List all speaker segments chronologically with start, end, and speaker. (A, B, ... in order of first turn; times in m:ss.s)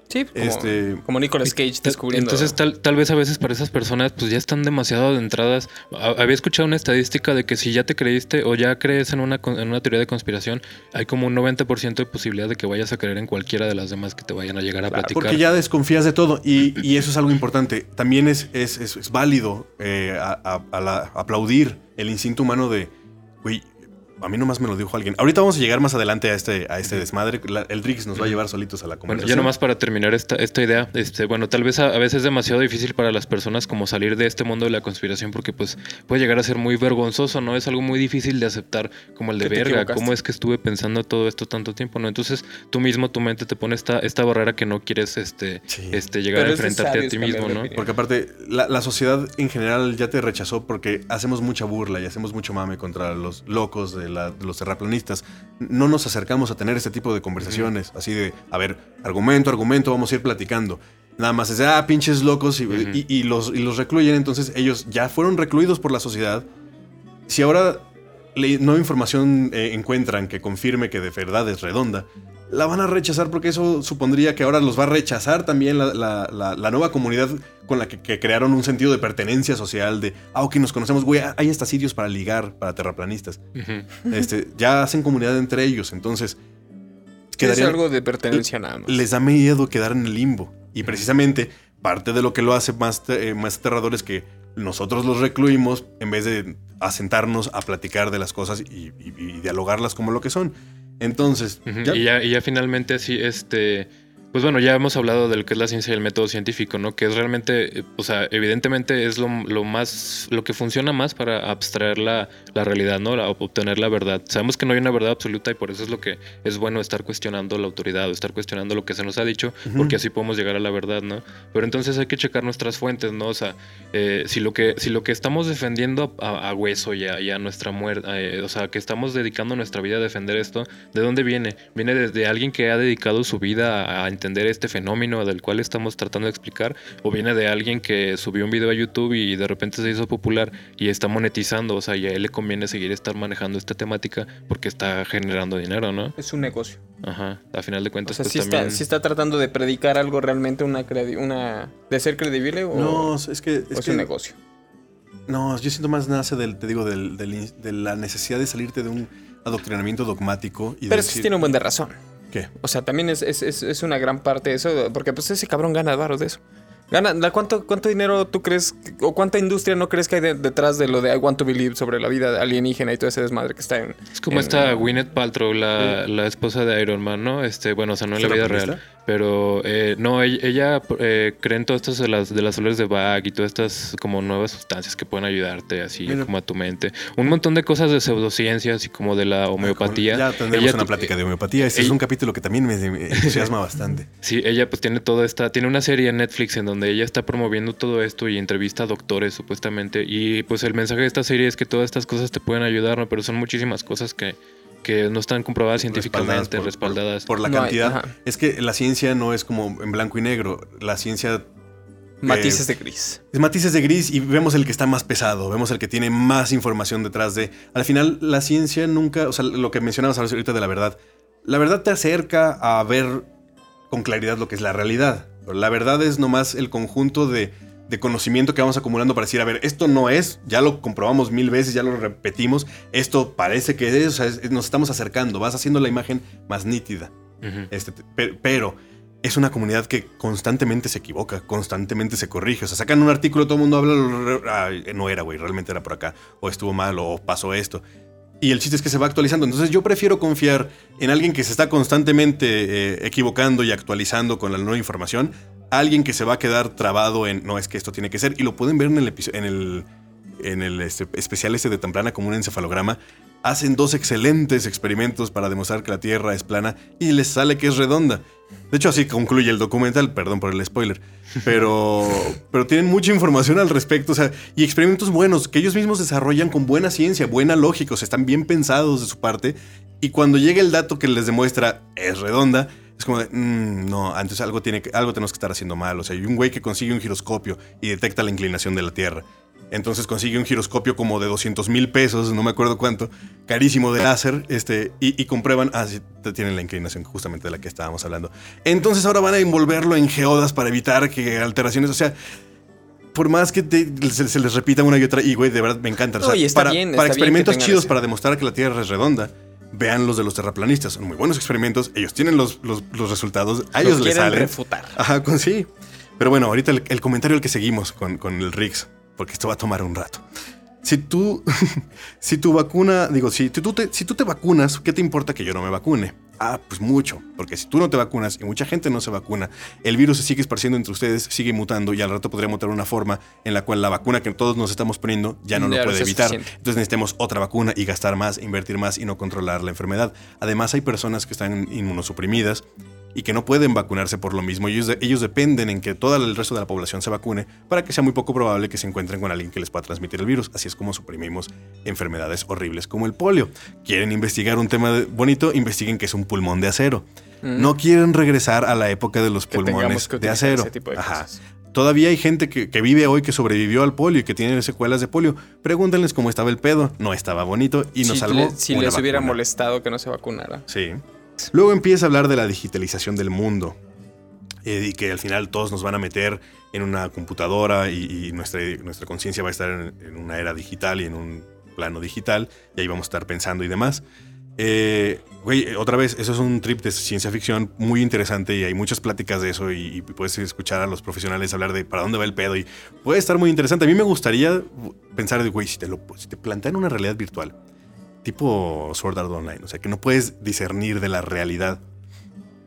0:00.1-0:02.6 A
0:00.3-0:01.0 B
0:01.5-0:15.4 C
0:14.9-0:15.1 A
0:15.1-0:29.5 B
0:29.1-0:47.7 C
0:39.4-0:40.1 A
0:45.7-0:46.0 B
0:46.3-0:47.9 A
0:47.7-1:06.4 B
1:02.7-1:03.0 C
1:07.3-1:23.4 B
1:23.6-1:23.9 C
1:24.1-1:26.4 B
1:27.3-1:27.8 B
1:27.4-1:29.0 A
1:28.3-1:42.0 B
1:41.6-2:26.1 C
1:59.6-2:00.0 B
2:26.2-2:26.8 A
2:27.0-2:28.8 C
2:28.0-2:33.1 A
2:32.7-2:34.1 B
2:33.7-2:34.4 A
2:35.3-2:41.3 B
2:40.9-2:42.0 A
2:42.5-2:54.8 A
2:54.2-3:11.1 C
2:58.2-2:58.8 B
3:09.6-3:14.1 B
3:13.2-3:13.5 C
3:14.2-3:27.3 C
3:25.8-3:31.5 B
3:27.4-3:28.1 A
3:32.2-3:33.2 A
3:32.2-3:32.6 B
3:33.3-3:43.3 B
3:43.9-3:57.1 B
3:57.4-3:57.7 C
3:57.7-4:07.8 B
4:08.4-4:19.9 B
4:20.4-5:02.1 B
5:03.1-5:20.2 B
5:06.2-5:07.9 A
5:13.8-5:15.0 A
5:20.8-6:09.4 B
5:35.5-5:36.5 A
5:57.4-5:57.7 A
5:59.5-6:01.4 A
6:08.0-6:10.7 A
6:10.7-6:13.8 B
6:14.6-6:24.0 B
6:24.6-6:37.6 B
6:38.2-6:41.8 B